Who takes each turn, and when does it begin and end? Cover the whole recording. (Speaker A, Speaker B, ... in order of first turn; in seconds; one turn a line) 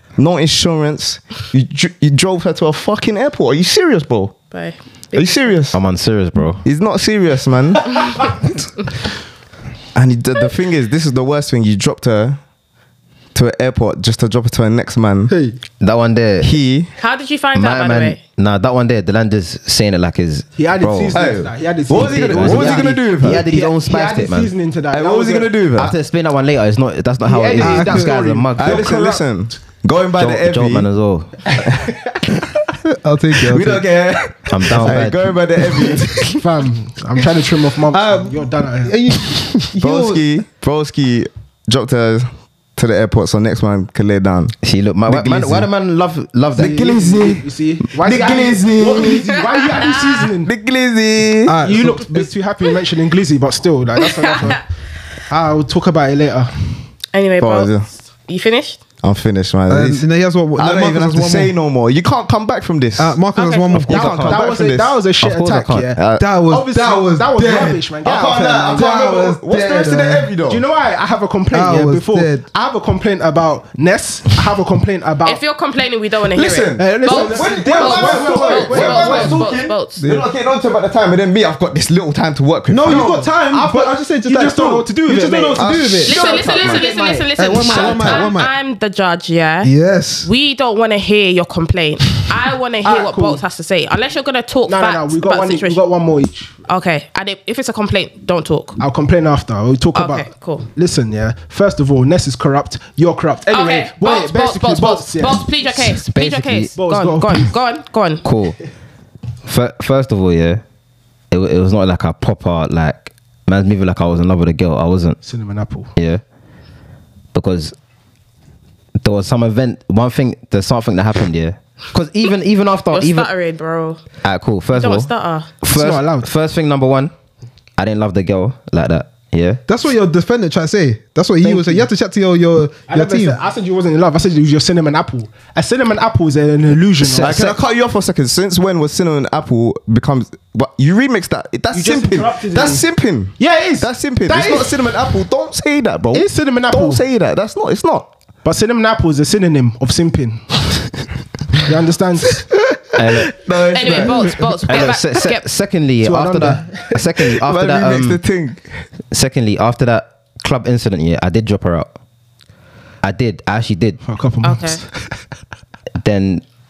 Speaker A: 0.2-4.4
Speaker B: 4.5-5.6
Speaker A: 5.1-5.8
Speaker C: 5.7-6.6
Speaker A: 6.6-8.4
Speaker A: 9.9-12.4
Speaker A: 13.3-15.3
Speaker D: 15.3-15.6
Speaker C: 15.8-16.5
Speaker A: 16.4-16.9
Speaker B: 17.0-18.2
Speaker C: 17.6-21.2
Speaker D: 20.6-25.6
Speaker A: 21.1-23.4
Speaker C: 21.9-24.5
Speaker A: 24.9-25.9
Speaker C: 25.8-28.9
Speaker D: 27.2-29.3
Speaker E: 27.6-28.1
Speaker A: 28.6-30.9
Speaker C: 30.2-31.4
Speaker A: 31.6-31.9
Speaker E: 32.9-33.9
Speaker A: 33.4-36.4
Speaker C: 34.5-35.3
Speaker D: 36.2-39.0
Speaker E: 37.9-40.2
Speaker A: 39.8-44.6
Speaker C: 44.6-46.8
Speaker A: 45.1-45.7
Speaker A: 46.6-47.4
Speaker D: 46.6-50.5
Speaker A: 48.0-49.3
Speaker B: 49.8-50.2
Speaker A: 50.4-51.6
Speaker E: 51.5-52.3
Speaker D: 51.6-54.6
Speaker B: 54.0-54.6
Speaker D: 55.3-56.8
Speaker B: 57.1-58.8
Speaker A: 57.4-57.9
Speaker A: 59.0-60.0
Speaker E: 59.7-61.5
Speaker A: 60.6-63.2
Speaker E: 63.0-64.7
Speaker B: 63.4-63.8
Speaker C: 63.8-64.5
Speaker A: 63.8-64.8
Speaker D: 63.9-69.3
Speaker C: 65.2-65.9
Speaker A: 66.0-66.3
Speaker E: 66.2-67.8
Speaker A: 68.0-70.6
Speaker E: 68.7-70.3
Speaker D: 70.5-75.4
Speaker E: 71.5-72.5
Speaker B: 75.2-80.0
Speaker A: 76.3-83.2
Speaker D: 76.8-79.5
Speaker E: 80.0-80.3
Speaker E: 82.7-86.2
Speaker D: 82.8-88.1
Speaker A: 85.5-86.9
Speaker B: 86.0-89.7
Speaker E: 87.4-88.5
Speaker E: 89.6-90.3
Speaker B: 90.2-95.8
Speaker D: 92.8-93.4
Speaker D: 94.7-96.5
Speaker B: 96.7-98.8
Speaker D: 98.8-105.8
Speaker B: 100.0-100.7
Speaker B: 103.5-108.2
Speaker C: 106.1-106.7
Speaker D: 106.8-107.5
Speaker C: 108.2-108.6
Speaker C: 109.5-110.6
Speaker C: 111.3-115.2
Speaker D: 115.2-115.9
Speaker C: 116.0-116.2
Speaker C: 117.3-117.7
Speaker C: 119.0-123.3
Speaker B: 122.9-124.0
Speaker C: 124.2-125.1
Speaker B: 124.7-125.5
Speaker C: 125.6-127.1
Speaker D: 125.6-126.3
Speaker C: 127.8-129.6
Speaker E: 129.7-133.4
Speaker D: 131.4-131.9
Speaker D: 132.9-137.4
Speaker C: 137.0-137.6
Speaker A: 137.2-148.1
Speaker D: 141.7-142.9
Speaker D: 143.4-144.8
Speaker D: 146.1-147.0
Speaker D: 148.4-150.9
Speaker D: 151.6-152.4
Speaker C: 152.9-153.3
Speaker A: 153.3-154.5
Speaker B: 153.7-155.4
Speaker C: 154.7-158.2
Speaker D: 156.0-157.0
Speaker A: 157.3-158.6
Speaker C: 159.1-161.9
Speaker C: 163.0-164.0
Speaker D: 164.1-164.9
Speaker B: 164.4-164.8
Speaker C: 166.0-166.4